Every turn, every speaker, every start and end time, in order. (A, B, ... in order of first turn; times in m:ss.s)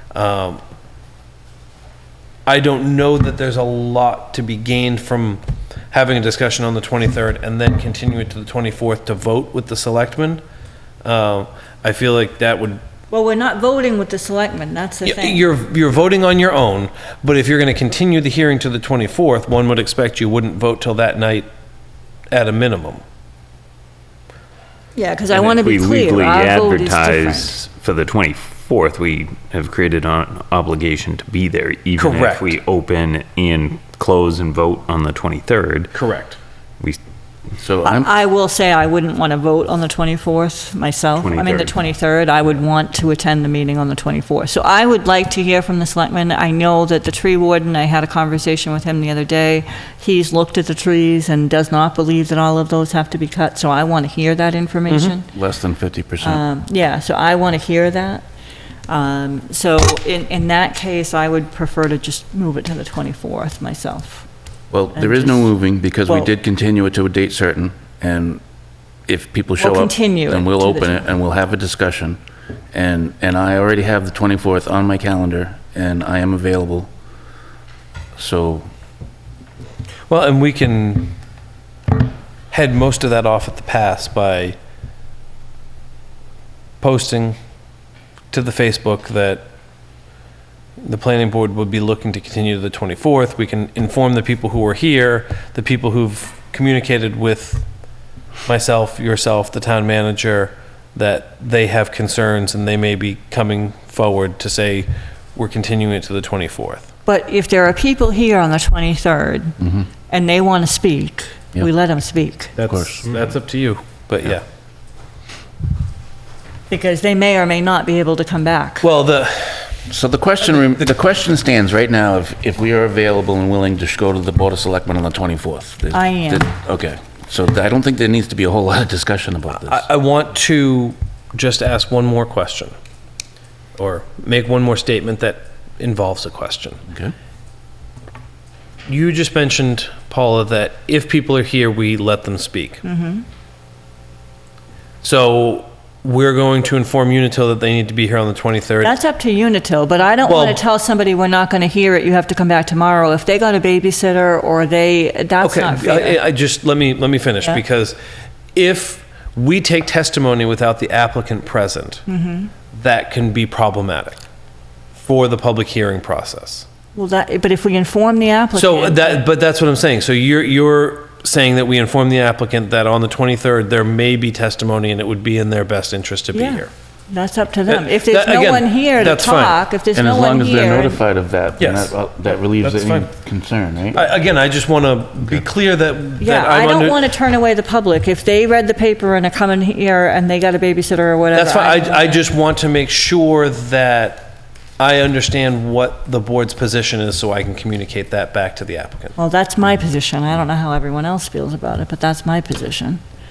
0:00.1-0:00.6 A
0:02.5-0:10.4 A
0:11.0-0:12.8 A
0:13.1-0:15.5 B
0:15.0-0:21.5 A
0:22.3-0:23.0 A
0:25.0-0:27.6 B
0:25.3-0:35.9 C
0:32.0-0:32.5 A
0:35.9-0:36.4 A
0:37.6-0:38.1 D
0:37.8-0:55.3 B
0:41.2-0:41.8 C
0:54.9-0:55.1 A
0:55.3-0:56.4 D
0:56.2-0:58.3 B
0:58.9-1:04.3 B
1:04.7-1:08.4 D
1:04.9-1:06.3 B
1:09.1-1:12.2 D
1:09.6-1:11.0 B
1:12.7-1:16.9 D
1:18.2-1:18.7 D
1:20.1-1:21.2 A
1:22.5-1:24.6 A
1:26.8-1:27.4 A
1:28.3-1:29.4 A
1:30.8-1:37.7 A
1:38.4-1:46.9 A
1:47.1-1:49.6 B
1:49.6-1:49.9 D
1:50.1-1:52.6 B
1:52.6-1:54.4 A
1:52.6-1:53.1 D
1:56.7-1:58.9 B
1:58.8-1:59.7 A
1:59.9-2:09.9 D
2:05.9-2:06.5 B
2:09.5-2:12.8 A
2:13.8-2:16.8 A
2:16.9-2:17.1 D
2:18.9-2:22.8 A
2:22.8-2:23.2 B
2:25.0-2:29.0 A
2:28.8-2:36.2 B
2:30.2-2:30.6 A
2:35.4-2:38.0 A
2:38.5-2:42.0 A
2:42.1-2:42.5 B
2:42.7-2:44.2 A
2:45.0-2:46.7 A
2:47.0-2:49.3 B
2:48.5-2:56.7 A
2:56.3-3:01.0 B
2:57.7-2:59.6 A
2:59.9-3:04.0 D
3:01.6-3:02.0 A
3:02.6-3:03.1 A
3:03.9-3:07.1 A
3:06.2-3:12.3 B
3:11.3-3:19.2 A
3:19.2-3:23.0 B